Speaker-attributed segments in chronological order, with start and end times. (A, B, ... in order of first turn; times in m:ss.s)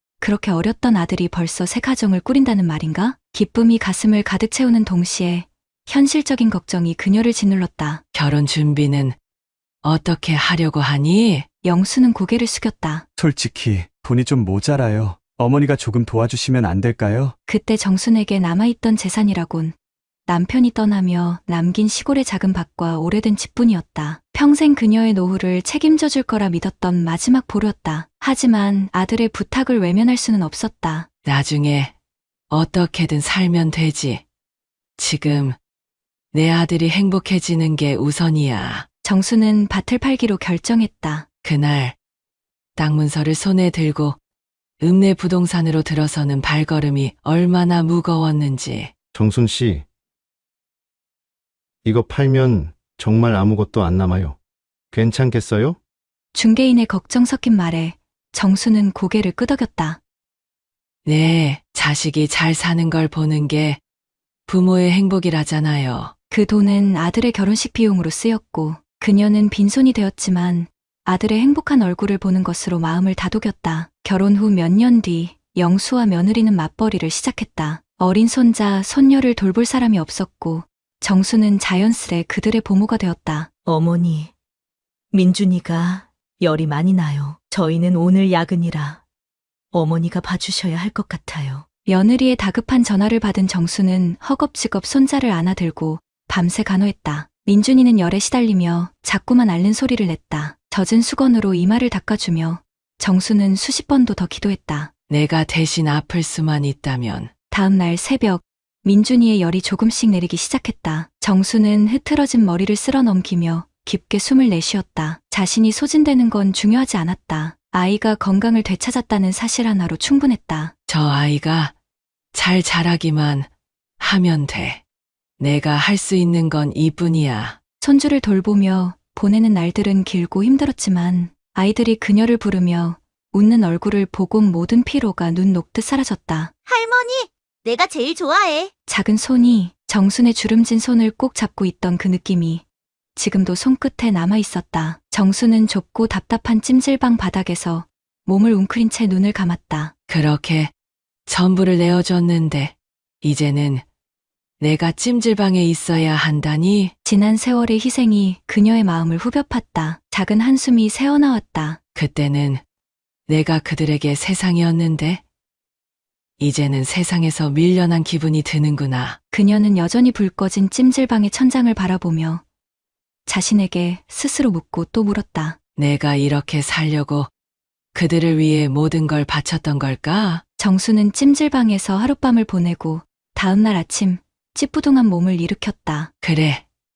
0:00.2-0:08.0 A
0:08.1-0:09.2 B
0:09.8-0:11.4 B
0:11.6-0:13.0 A
0:13.2-0:17.3 C
0:17.5-0:19.7 A
0:20.3-0:31.1 A
0:31.2-0:31.9 B
0:32.5-0:34.2 B
0:35.0-0:35.6 B
0:36.3-0:38.9 B
0:39.0-0:41.2 A
0:41.4-0:42.0 B
0:42.8-0:44.2 B
0:44.8-0:48.9 B
0:49.1-0:49.8 D
0:51.8-0:54.4 D
0:54.9-0:55.8 D
0:56.3-1:00.0 A
1:01.0-1:03.8 B
1:04.5-1:06.1 B
1:06.3-1:23.5 A
1:23.6-1:24.3 E
1:25.1-1:29.0 E
1:29.7-1:31.6 E
1:31.8-1:44.9 A
1:45.1-1:47.3 B
1:47.5-2:00.7 A
2:00.9-2:01.7 B
2:02.3-2:03.5 B
2:04.0-2:04.8 B
2:05.4-2:07.6 B
2:07.8-2:16.5 A
2:16.7-2:18.7 F
2:18.9-2:22.6 A
2:23.2-2:29.9 A
2:30.1-2:30.7 B
2:31.3-2:33.8 B
2:34.6-2:36.9 B
2:37.0-2:41.8 A
2:41.9-2:42.6 B
2:43.3-2:45.2 B
2:46.4-2:49.2 B
2:49.3-2:52.4 A
2:53.2-2:55.6 A
2:55.8-2:57.3 B
2:57.9-3:00.4 B
3:00.6-3:06.1 A
3:06.2-3:06.6 B